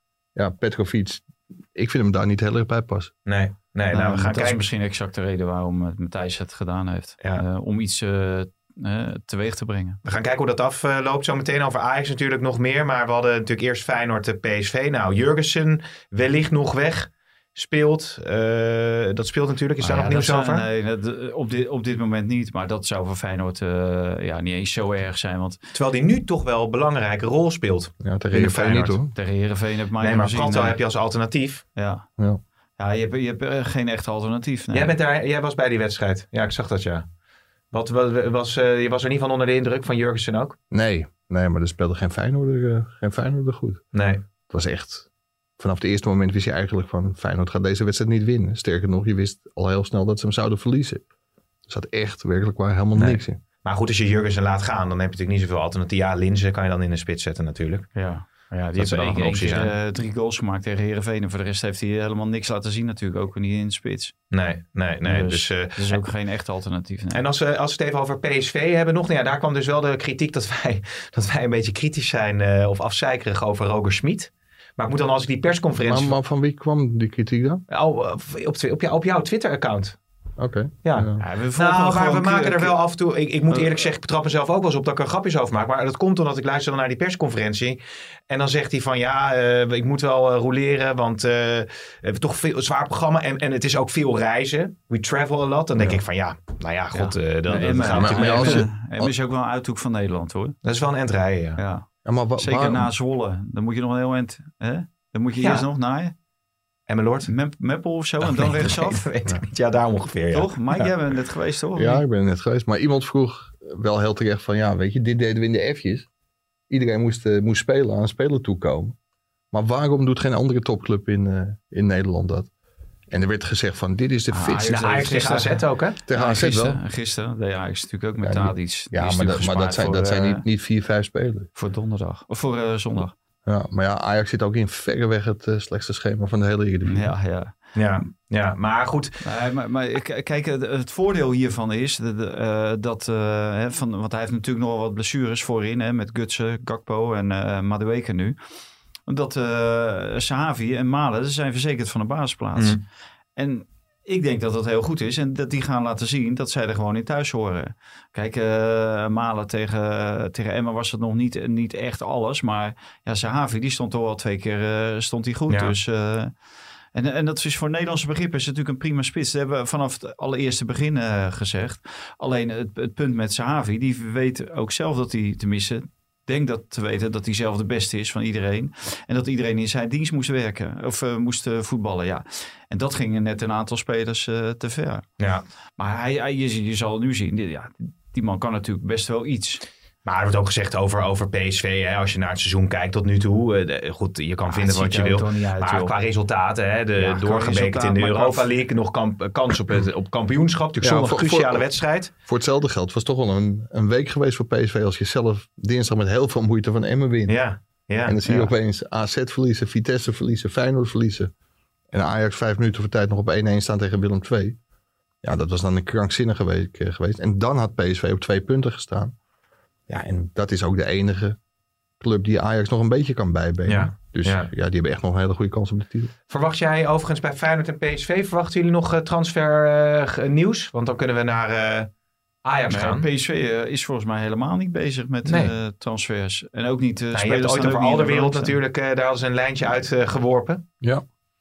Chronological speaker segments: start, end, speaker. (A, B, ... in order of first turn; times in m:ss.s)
0:00.4-0:03.1 A
0:03.3-0:04.6 B
0:03.9-0:10.0 C
0:10.0-0:20.6 B
0:19.8-0:25.6 C
0:25.7-0:29.0 B
0:28.0-0:29.1 A
0:29.2-0:30.8 C
0:30.0-0:31.6 B
0:31.8-0:32.1 C
0:32.8-0:34.9 C
0:34.7-0:37.0 B
0:37.7-0:40.6 B
0:40.7-0:43.8 A
0:43.9-0:44.2 B
0:44.5-0:45.1 A
0:45.6-0:51.0 A
0:51.7-0:53.4 A
0:53.0-0:57.9 B
0:58.0-1:04.2 C
0:58.8-0:59.7 B
1:04.3-1:06.0 B
1:05.0-1:07.2 C
1:07.1-1:16.2 B
1:15.9-1:17.6 A
1:17.7-1:20.0 B
1:20.4-1:21.2 A
1:20.8-1:38.7 B
1:21.2-1:22.8 C
1:23.5-1:23.8 C
1:36.9-1:40.6 C
1:37.7-1:39.1 A
1:40.6-1:41.6 B
1:41.6-1:41.9 C
1:42.0-1:42.9 A
1:42.4-1:46.1 C
1:46.9-1:47.3 B
1:47.3-1:49.0 C
1:48.2-1:50.9 B
1:50.3-1:52.0 C
1:51.8-1:56.1 A
1:56.7-1:59.0 A
1:59.5-2:02.5 A
2:03.1-2:04.8 A
2:04.3-2:10.4 C
2:04.7-2:06.0 B
2:06.1-2:06.8 A
2:08.2-2:11.5 A
2:11.6-2:13.1 C
2:13.5-2:17.1 A
2:16.8-2:17.6 C
2:17.8-2:19.2 B
2:19.2-2:28.4 C
2:29.1-2:32.8 C
2:32.6-2:32.8 B
2:33.4-2:46.3 C
2:45.5-2:45.7 B
2:46.9-3:05.0 C
3:05.2-3:05.4 B
3:05.8-3:09.6 C
3:10.0-3:22.1 B
3:14.5-3:15.9 C
3:17.0-3:18.5 C
3:20.8-3:21.7 A
3:22.3-3:27.4 A
3:27.3-3:28.4 B
3:28.0-3:31.3 A
3:31.9-3:34.6 A
3:35.2-3:39.2 A
3:39.9-3:41.4 A
3:42.0-3:46.1 A
3:43.7-3:44.5 B
3:46.3-3:51.9 B
3:52.4-3:53.1 B
3:52.7-3:58.6 C
3:55.3-3:55.5 B
3:57.1-4:00.6 B